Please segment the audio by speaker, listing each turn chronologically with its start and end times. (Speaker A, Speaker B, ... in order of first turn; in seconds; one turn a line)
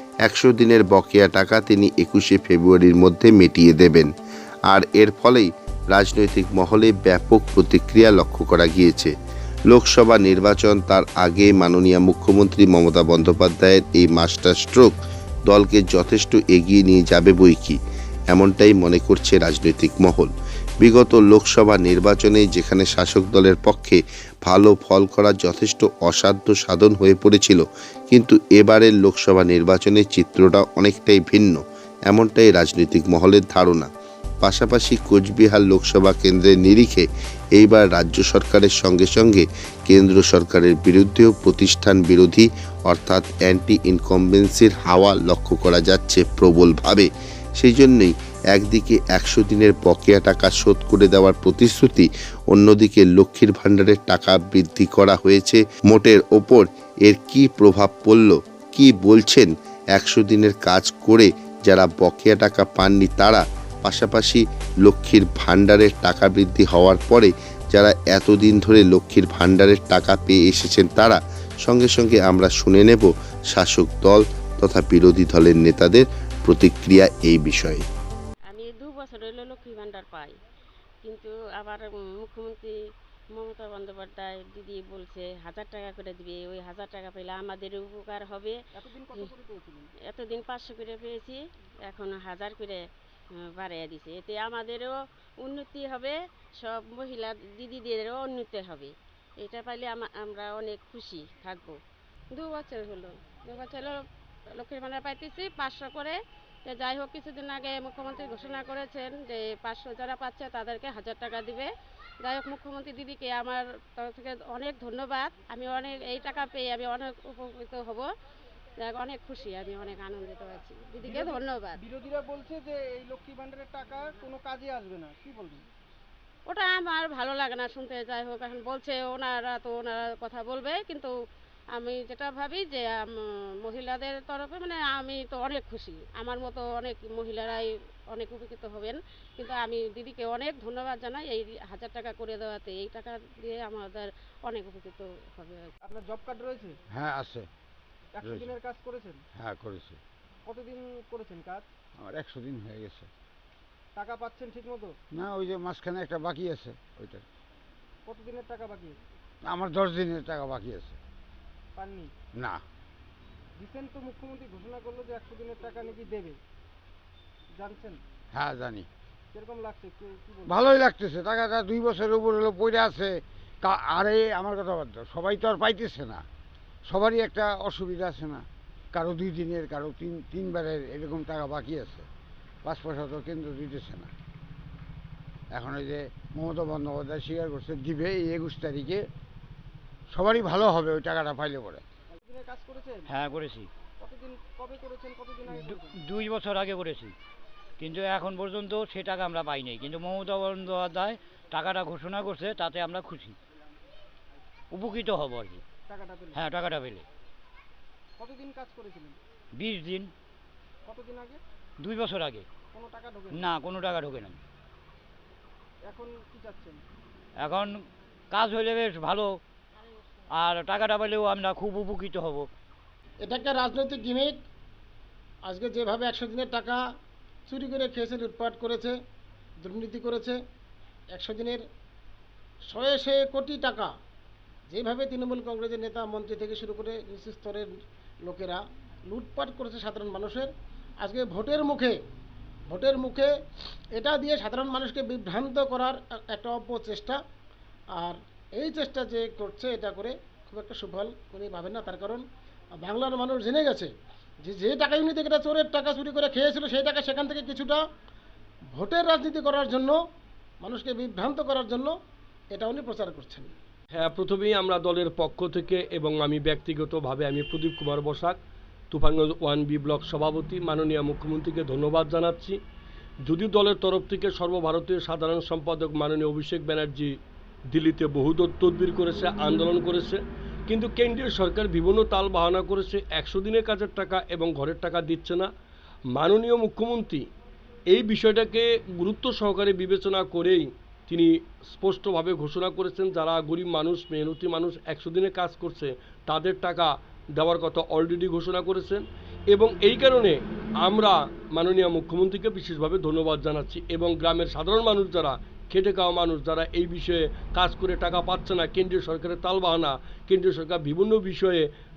Speaker A: 0.3-4.1
Speaker A: 4.7-9.1
Speaker A: 9.7-14.9
Speaker A: 15.5-17.8
Speaker A: 18.3-33.9
Speaker A: 34.4-77.8
Speaker B: 78.5-80.3
Speaker B: 81.0-82.8
Speaker B: 83.3-88.6
Speaker C: 88.8-89.9
Speaker B: 90.0-92.8
Speaker B: 93.3-101.8
Speaker D: 102.3-104.0
Speaker D: 104.6-111.7
Speaker D: 112.2-118.1
Speaker D: 118.8-121.8
Speaker C: 121.0-125.6
Speaker D: 126.5-131.1
Speaker D: 131.7-145.7
Speaker C: 145.8-146.7
Speaker E: 146.9-147.5
Speaker C: 148.2-149.2
Speaker E: 148.2-148.6
Speaker E: 149.4-150.0
Speaker C: 150.5-151.7
Speaker E: 152.0-153.1
Speaker C: 153.9-154.9
Speaker E: 155.1-157.2
Speaker C: 158.1-159.0
Speaker E: 159.4-161.0
Speaker C: 161.8-162.1
Speaker C: 163.6-166.4
Speaker C: 167.6-168.0
Speaker E: 168.3-168.9
Speaker C: 169.3-170.6
Speaker E: 170.5-176.2
Speaker E: 176.9-182.1
Speaker E: 182.6-184.1
Speaker E: 185.5-189.0
Speaker E: 190.1-191.8
Speaker C: 192.2-193.1
Speaker F: 193.1-193.7
Speaker C: 194.0-195.9
Speaker F: 195.6-197.1
Speaker F: 197.8-203.4
Speaker F: 204.7-205.6
Speaker C: 205.9-206.4
Speaker F: 206.4-207.1
Speaker C: 208.2-209.2
Speaker F: 209.6-210.1
Speaker C: 210.9-211.4
Speaker F: 211.8-212.5
Speaker C: 212.7-213.4
Speaker F: 213.4-214.4
Speaker C: 215.9-216.8
Speaker F: 217.4-219.4
Speaker F: 220.3-222.5
Speaker G: 223.2-224.4
Speaker G: 225.4-226.8
Speaker G: 227.5-229.0
Speaker G: 229.6-230.4
Speaker G: 231.1-231.6
Speaker G: 232.7-233.9
Speaker G: 234.7-237.7
Speaker G: 238.2-242.0
Speaker G: 242.7-243.3
Speaker G: 243.9-247.2
Speaker G: 248.0-252.2
Speaker G: 252.8-253.9
Speaker G: 254.4-257.8
Speaker G: 258.7-260.0
Speaker G: 260.6-261.9
Speaker G: 262.5-263.5
Speaker H: 264.0-268.4
Speaker H: 268.9-272.6
Speaker H: 273.3-277.1
Speaker H: 277.7-285.5
Speaker H: 286.1-287.3
Speaker H: 287.9-311.7